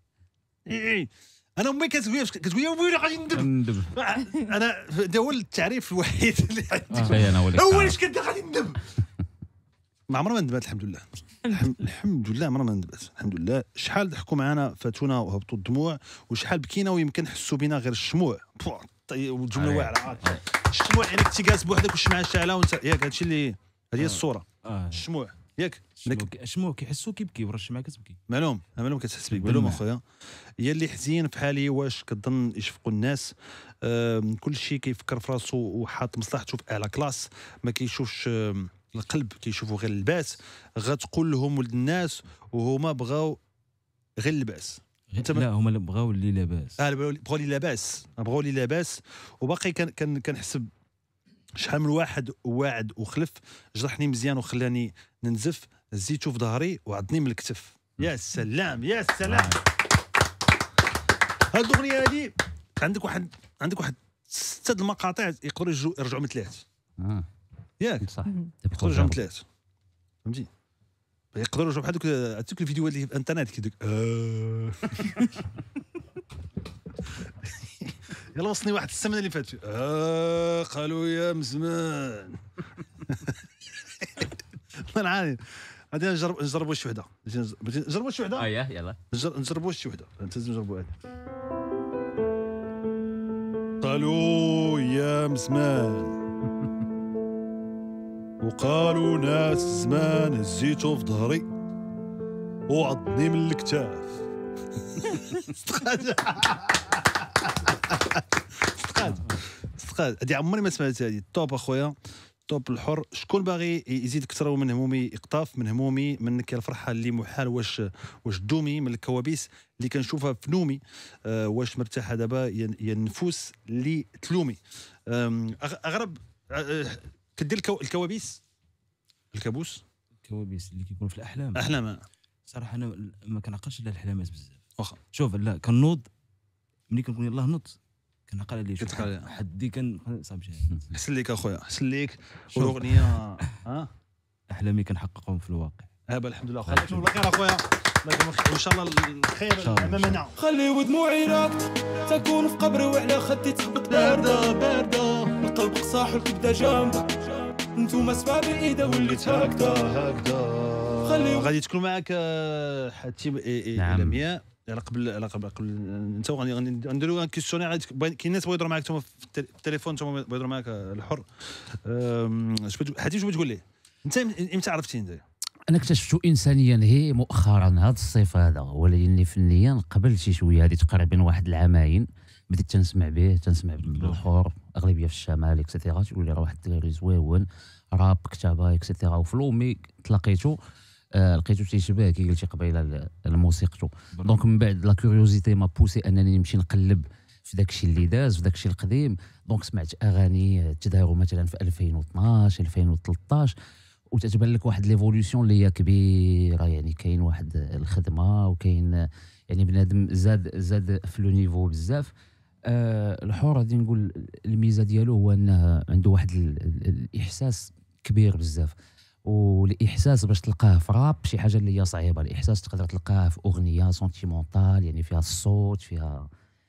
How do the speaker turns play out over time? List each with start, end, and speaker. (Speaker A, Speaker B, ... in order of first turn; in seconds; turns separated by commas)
Speaker A: 0.7-8.8, Speaker B: 3.3-3.9, Speaker C: 6.9-7.4, Speaker B: 7.0-8.0, Speaker A: 10.1-26.3, Speaker B: 19.5-20.4, Speaker C: 24.0-25.1, Speaker C: 26.0-28.2, Speaker A: 28.3-30.0, Speaker C: 29.3-29.9, Speaker A: 30.6-43.4, Speaker A: 44.2-45.5, Speaker C: 45.1-46.8, Speaker A: 46.8-50.7, Speaker A: 51.6-59.6, Speaker B: 59.3-59.6, Speaker A: 61.5-66.6, Speaker B: 67.0-67.3, Speaker A: 67.8-68.1, Speaker B: 68.0-69.2, Speaker A: 68.7-69.5, Speaker A: 71.3-75.3, Speaker A: 77.6-82.4, Speaker A: 83.0-83.4, Speaker A: 84.0-88.6, Speaker B: 88.4-89.0, Speaker A: 89.1-91.0, Speaker A: 93.8-96.2, Speaker A: 98.4-101.5, Speaker A: 102.7-104.2, Speaker A: 105.0-112.0, Speaker C: 109.0-109.4, Speaker A: 112.5-128.4, Speaker A: 129.3-129.8, Speaker C: 130.2-131.8, Speaker A: 131.6-132.0, Speaker C: 132.5-134.6, Speaker C: 135.1-136.1, Speaker C: 136.9-140.9, Speaker A: 138.8-139.3, Speaker A: 140.9-143.9, Speaker C: 142.6-143.4, Speaker C: 144.5-145.9, Speaker A: 146.1-150.3, Speaker C: 146.6-147.1, Speaker C: 149.6-150.2, Speaker D: 150.4-154.6, Speaker A: 153.9-155.3, Speaker D: 155.4-159.8, Speaker A: 158.8-175.2, Speaker D: 161.1-161.5, Speaker B: 163.8-164.2, Speaker B: 175.7-190.6, Speaker C: 183.8-184.3, Speaker B: 191.1-203.6, Speaker C: 194.1-194.5, Speaker B: 204.1-212.1, Speaker B: 212.7-218.8, Speaker B: 219.3-226.3